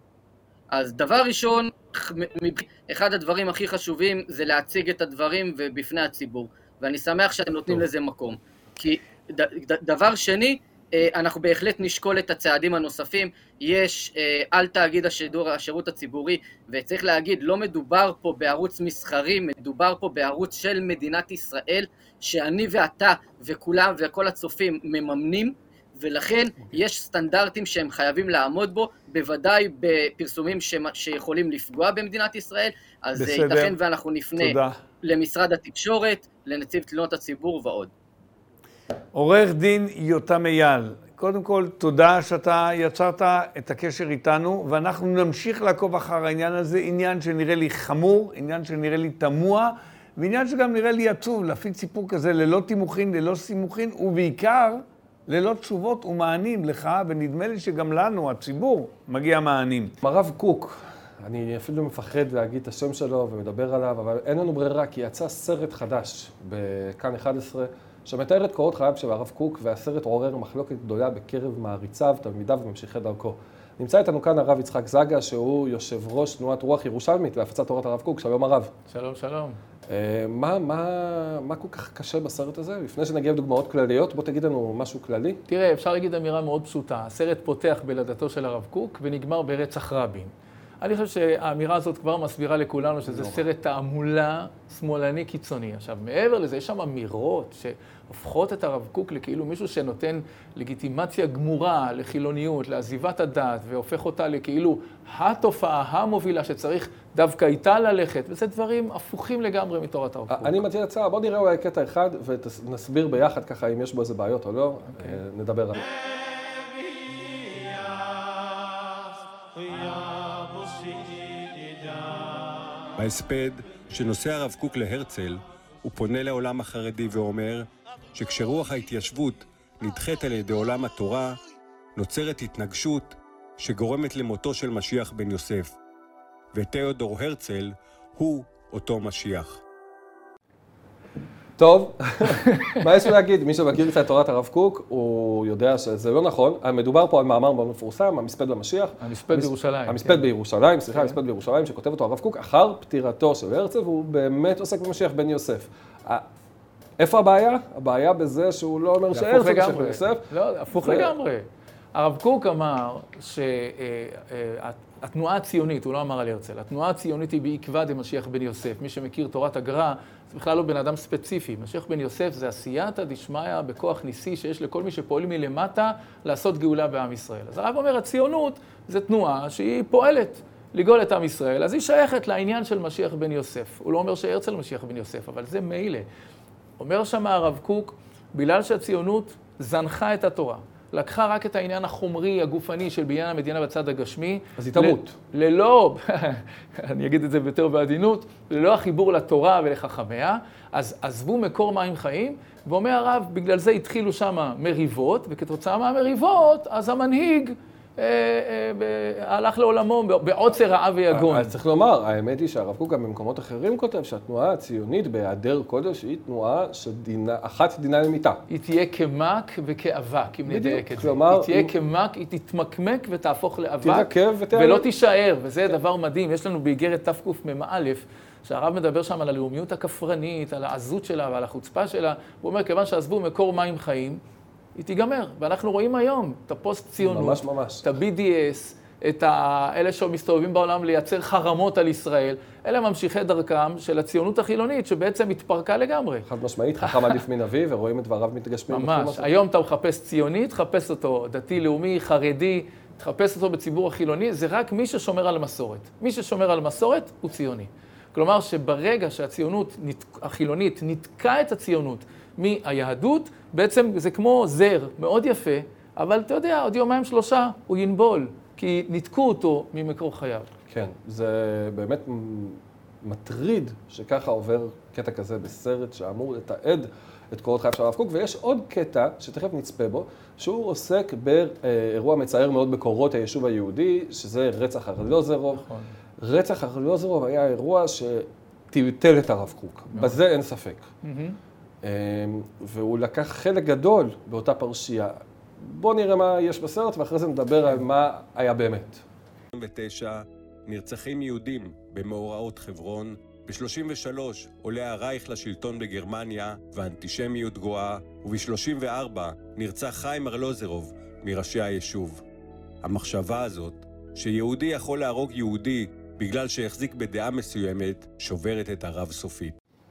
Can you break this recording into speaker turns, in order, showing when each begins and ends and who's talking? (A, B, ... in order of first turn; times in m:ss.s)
0:00.7-0:37.9 A
0:33.2-0:33.7 B
0:34.4-0:34.7 B
0:39.1-0:59.9 B
1:00.0-1:18.7 C
1:18.9-1:19.6 D
1:19.9-1:25.4 C
1:25.5-1:50.6 D
1:33.0-1:33.4 C
1:50.3-1:55.8 C
1:54.9-1:55.2 D
2:03.0-2:11.3 E
2:12.0-2:15.7 E
2:16.5-2:19.6 E
2:21.6-2:36.3 C
2:29.0-2:30.3 D
2:30.9-2:31.2 D
2:37.0-2:41.1 C
2:39.1-3:06.0 D
3:06.8-3:31.5 D
3:14.6-3:15.1 C
3:31.1-3:38.4 C
3:38.5-3:54.2 D
3:40.5-3:41.7 C
3:43.8-3:44.9 C
3:54.8-4:06.2 D
3:57.0-3:57.8 C
4:06.2-4:09.3 C
4:06.8-4:07.2 D
4:08.7-4:30.5 D
4:30.7-4:45.6 C
4:45.5-4:45.9 D
4:46.2-4:50.9 C
4:49.9-4:50.2 D
4:51.0-4:51.4 D
4:51.8-4:59.0 C
4:59.5-5:12.2 E
5:12.8-5:19.5 E